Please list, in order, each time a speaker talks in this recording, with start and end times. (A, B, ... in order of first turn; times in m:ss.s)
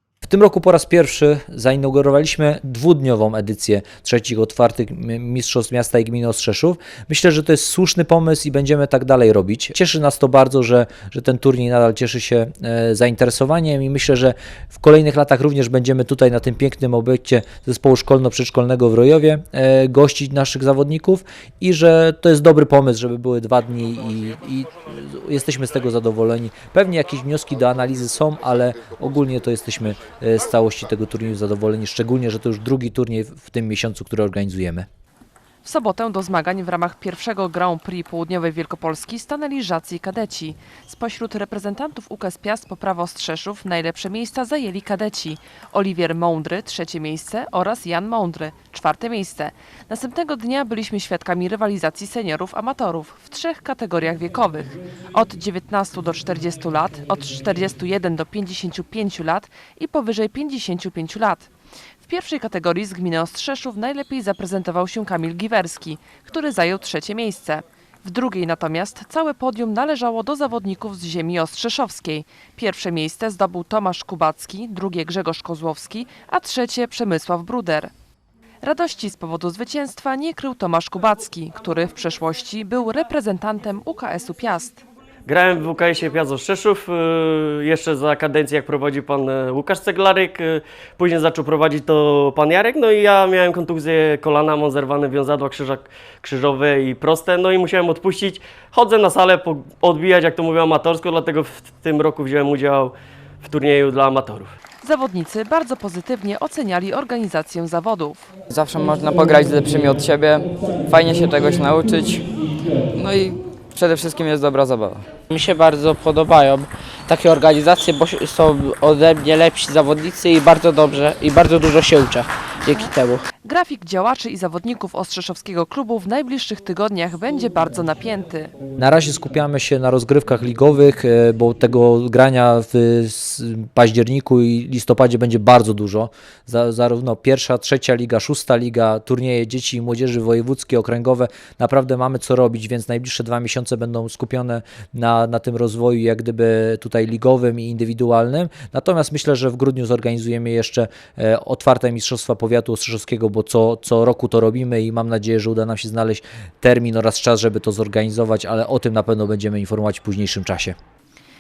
0:00.2-0:34.8 A
0:35.6-1:01.5 B
1:02.0-1:17.9 B
1:18.6-1:24.8 B
1:25.2-1:44.5 C
1:44.8-1:48.2 B
1:48.5-1:52.3 D
1:52.9-1:55.0 D
1:55.3-2:03.2 E
2:03.4-2:08.5 B
2:08.8-2:40.8 A